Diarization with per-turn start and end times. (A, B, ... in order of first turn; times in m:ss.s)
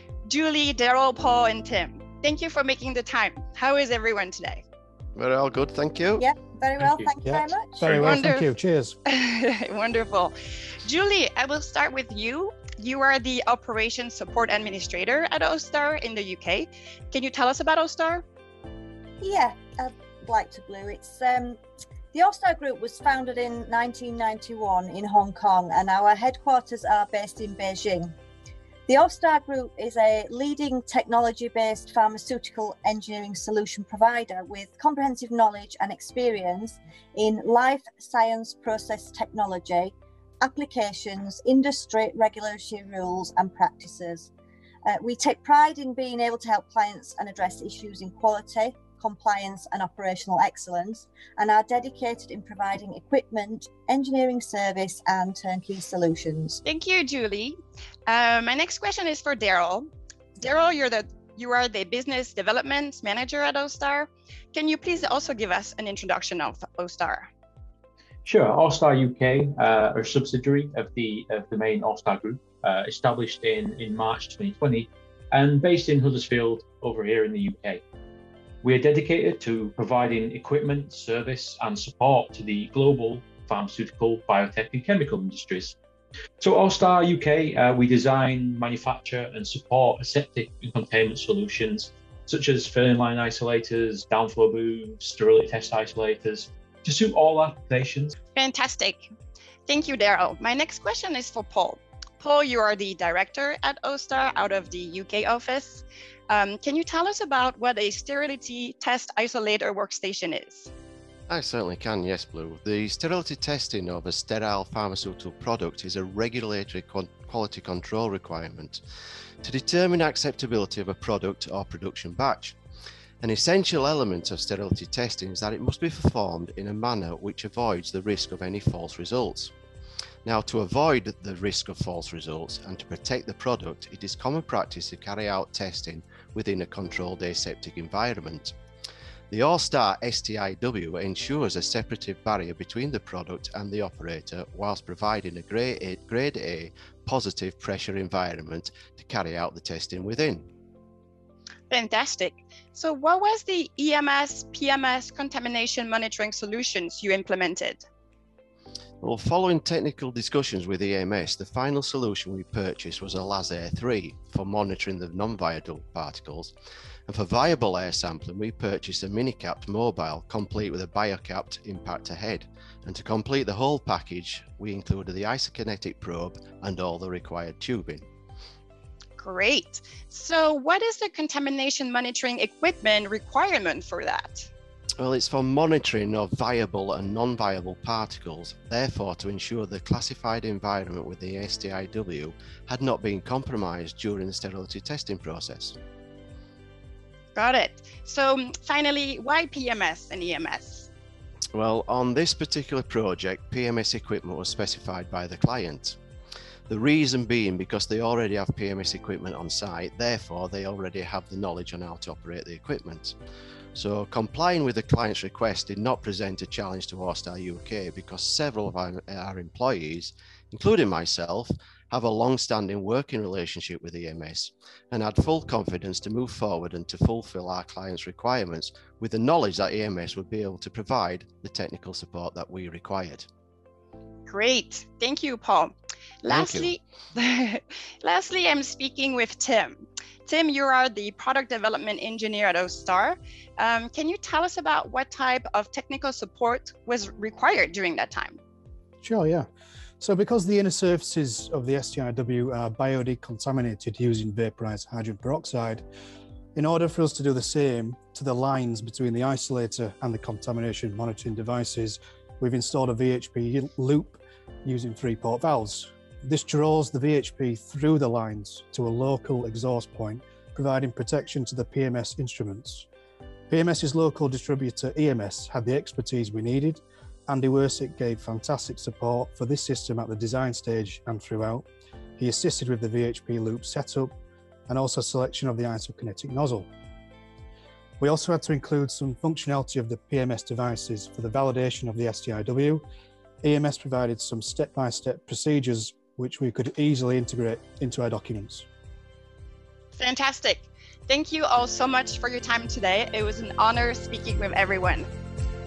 0:00.3-0:04.6 A
0:05.2-0:06.3 B
0:06.2-0:07.9 C
0:07.2-0:09.0 D
0:07.8-0:08.5 A
0:09.1-0:18.2 A
0:19.2-0:21.6 C
0:22.1-0:28.1 C
0:28.9-0:44.3 C
0:44.9-0:56.6 C
0:56.6-0:59.9 A
1:00.4-1:07.3 A
1:08.2-1:17.8 E
1:18.6-1:25.8 E
1:26.4-1:38.2 E
1:38.4-1:39.1 A
1:39.7-1:50.7 A
1:51.3-1:58.8 B
1:59.4-2:02.6 B
2:03.2-2:09.5 B
2:10.2-2:18.5 B
2:19.3-2:30.5 B
2:31.7-2:37.8 A
2:39.0-2:46.6 B
2:47.1-2:58.1 B
2:59.2-3:04.5 A
3:05.0-3:15.8 B
3:17.4-3:20.9 A
3:21.5-3:26.0 B
3:26.7-3:33.2 B
3:33.8-3:53.3 B
3:54.3-4:08.4 A
3:56.3-3:56.7 B
4:09.0-4:09.5 D
4:10.0-4:15.8 D
4:16.6-4:32.9 D
4:33.5-4:41.7 D
4:42.2-4:44.1 D
4:44.7-4:46.7 D
4:48.0-4:52.8 D
4:53.4-4:58.7 D
5:00.0-5:05.1 A